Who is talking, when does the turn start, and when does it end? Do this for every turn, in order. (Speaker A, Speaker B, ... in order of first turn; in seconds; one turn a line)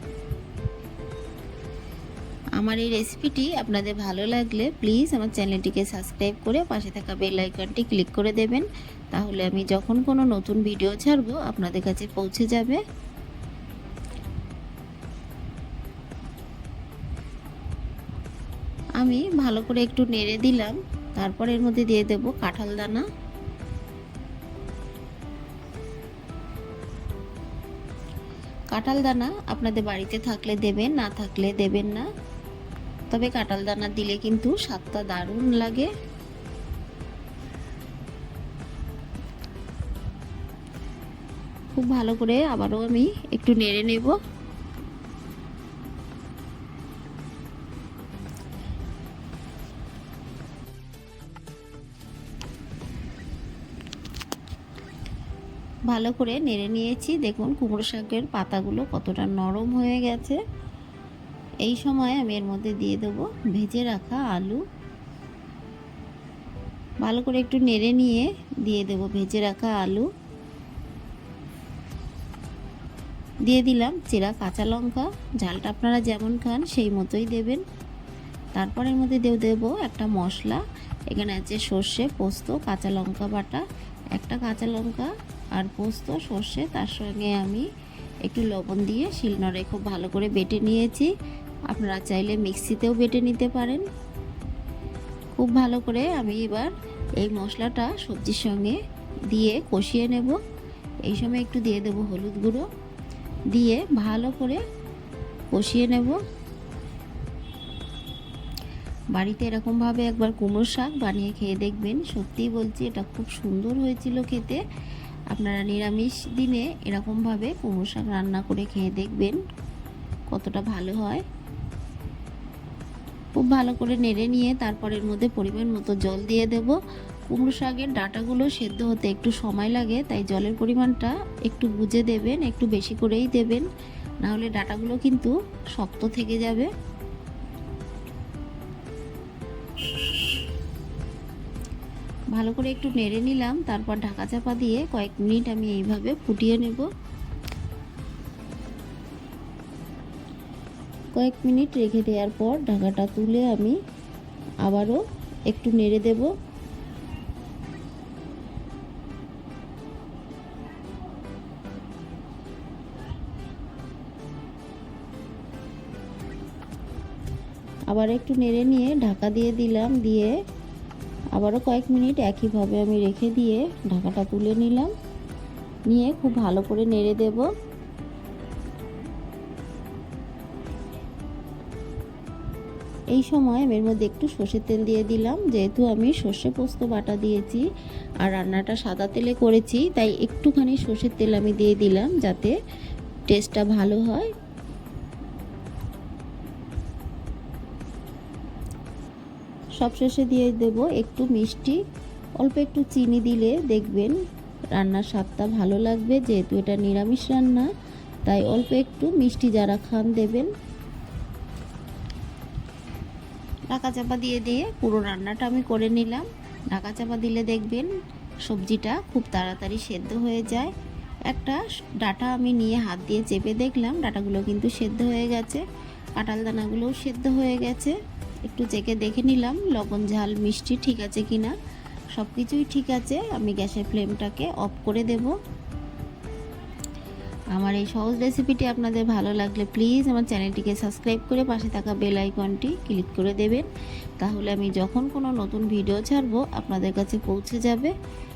Speaker A: 2.6-12.8
Speaker A: 19.0-23.0
Speaker A: 28.7-32.0
Speaker A: 33.1-35.9
Speaker A: 41.7-44.2
Speaker A: 55.9-60.4
Speaker A: 61.6-64.6
Speaker A: 67.0-70.1
Speaker A: 73.5-77.6
Speaker A: 78.5-87.7
Speaker A: 88.2-91.1
Speaker A: 91.7-93.8
Speaker A: 95.3-98.8
Speaker A: 99.3-100.4
Speaker A: 101.0-102.7
Speaker A: 103.5-104.6
Speaker A: 105.5-106.2
Speaker A: 109.1-114.6
Speaker A: 115.3-119.4
Speaker A: 120.3-121.2
Speaker A: 123.3-126.8
Speaker A: 127.3-133.7
Speaker A: 134.2-136.7
Speaker A: 142.3-146.9
Speaker A: 151.1-153.8
Speaker A: 154.6-156.3
Speaker A: 167.9-170.3
Speaker A: 171.3-174.9
Speaker A: 175.9-177.5
Speaker A: 183.1-187.6
Speaker A: 188.2-192.5
Speaker A: 193.3-194.3
Speaker A: 199.8-201.8
Speaker A: 202.4-204.1
Speaker A: 204.7-207.7
Speaker A: 208.2-210.5
Speaker A: 213.7-217.9
Speaker A: 218.4-220.7
Speaker A: 221.3-225.6
Speaker A: 226.2-228.0
Speaker A: 228.5-231.5
Speaker A: 232.1-235.3
Speaker A: 237.5-243.7
Speaker A: 244.2-247.9